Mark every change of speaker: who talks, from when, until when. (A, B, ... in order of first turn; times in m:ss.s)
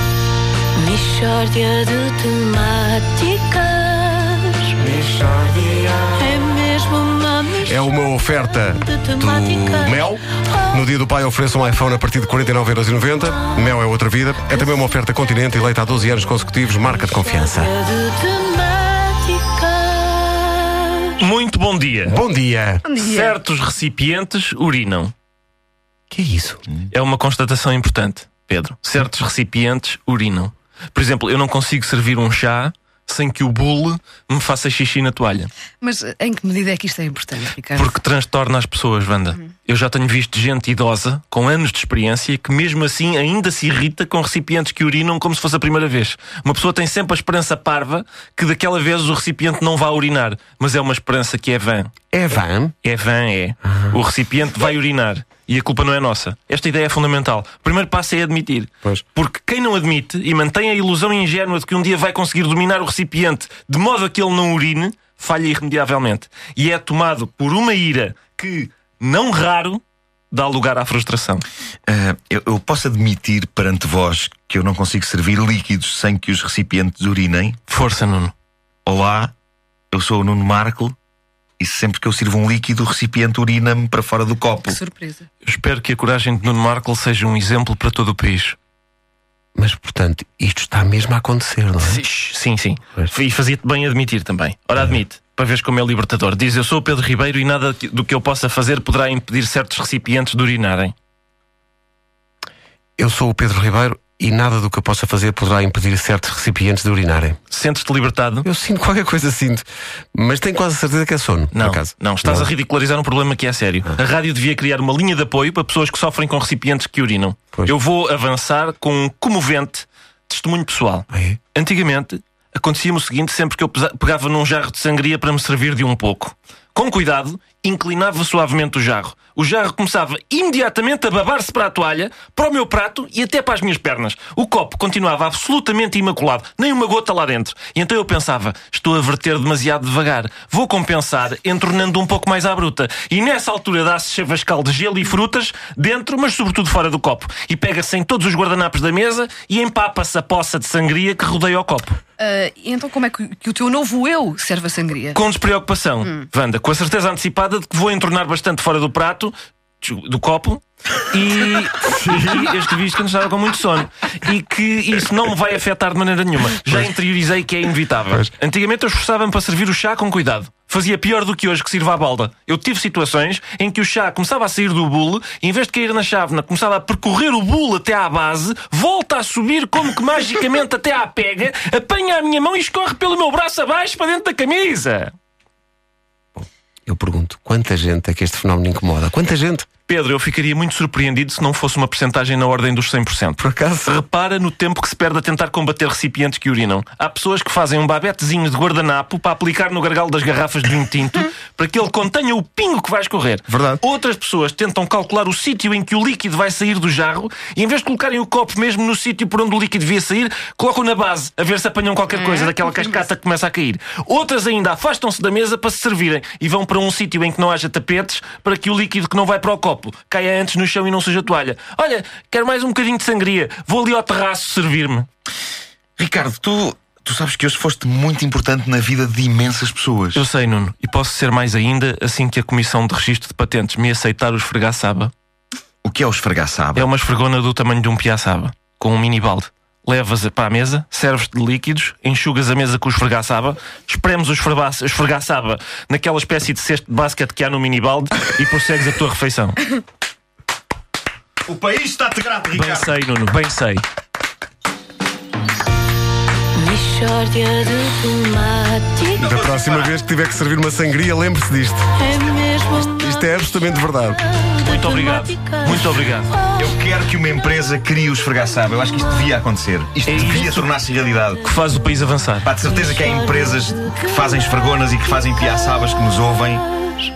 0:00.7-0:04.8 A
0:04.8-0:06.4 B
0:06.1-0:07.8 A
0:07.6-0:17.7 B
0:08.8-0:10.0 A
0:17.5-0:21.1 A
0:21.2-0:22.2 C
0:22.0-0:22.8 B
0:22.8-0:23.4 D
0:23.0-0:25.1 C
0:26.1-0:26.6 B
0:26.9-0:35.5 C
0:35.8-0:37.9 D
0:37.7-0:51.9 C
0:52.1-0:52.8 B
0:52.8-1:11.4 C
0:53.7-0:54.0 B
1:11.9-1:17.6 E
1:17.7-1:18.3 C
1:18.8-1:19.3 E
1:19.9-1:21.0 E
1:21.6-1:24.8 E
1:24.6-1:25.2 D
1:25.4-1:28.6 C
1:29.5-1:32.0 B
1:31.8-1:40.9 C
1:43.0-1:47.4 B
1:47.5-1:48.4 C
1:48.4-1:52.5 B
1:51.5-2:32.0 C
2:01.1-2:01.4 B
2:32.2-2:35.2 D
2:35.1-3:05.1 C
3:06.4-3:09.7 B
3:09.9-3:45.1 C
3:13.4-3:14.0 B
3:23.5-3:23.8 B
3:46.0-3:50.2 E
3:50.1-3:55.1 C
3:55.8-3:56.9 E
3:56.7-4:09.7 C
4:11.4-4:12.9 E
4:12.5-4:13.8 C
4:16.5-4:19.2 A
4:19.2-4:22.0 B
4:19.2-4:19.9 E
4:22.0-4:23.2 A
4:22.7-4:24.3 B
4:24.5-4:25.8 A
4:24.6-4:26.4 C
4:26.6-4:31.4 E
4:30.0-4:30.7 C
4:31.4-4:32.5 C
4:32.4-4:36.7 E
4:33.0-4:33.4 A